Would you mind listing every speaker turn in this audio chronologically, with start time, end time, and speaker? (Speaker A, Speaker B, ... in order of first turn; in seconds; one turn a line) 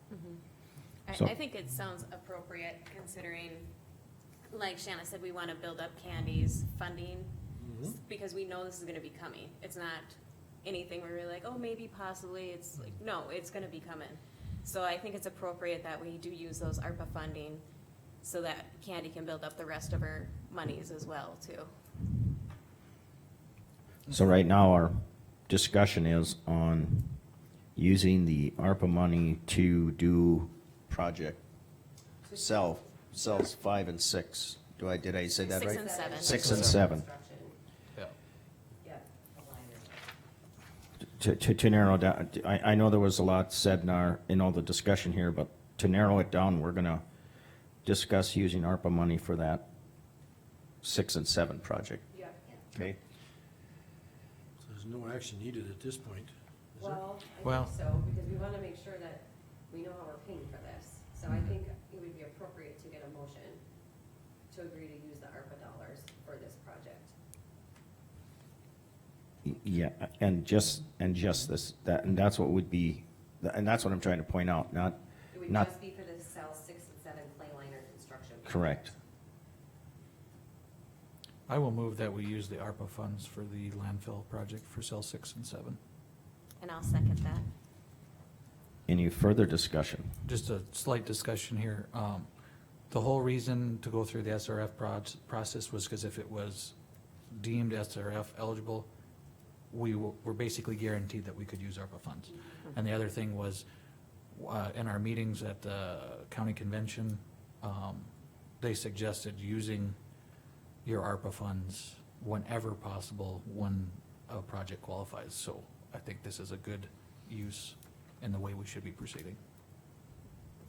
Speaker A: 0.1-0.4
Speaker A: 1.1-3.7
Speaker A: 4.5-7.3
Speaker B: 7.5-8.0
Speaker A: 7.9-10.1
Speaker A: 10.6-17.6
Speaker A: 18.2-21.7
Speaker C: 24.1-27.2
Speaker C: 27.8-31.4
Speaker D: 32.2-33.5
Speaker C: 32.3-37.0
Speaker A: 35.4-36.4
Speaker D: 35.5-37.6
Speaker E: 36.2-36.8
Speaker D: 38.8-40.1
Speaker C: 41.0-47.0
Speaker C: 47.8-49.6
Speaker C: 50.8-52.0
Speaker D: 52.1-52.6
Speaker C: 52.7-53.0
Speaker B: 54.6-57.0
Speaker D: 56.8-63.6
Speaker E: 57.4-57.7
Speaker D: 64.5-67.1
Speaker C: 69.4-75.7
Speaker D: 75.3-78.9
Speaker C: 78.4-78.9
Speaker E: 81.5-85.8
Speaker A: 86.6-87.5
Speaker C: 88.9-90.1
Speaker E: 90.2-92.3
Speaker E: 92.9-96.7
Speaker E: 97.3-98.9
Speaker E: 99.7-103.6
Speaker E: 104.3-110.0
Speaker E: 110.8-119.4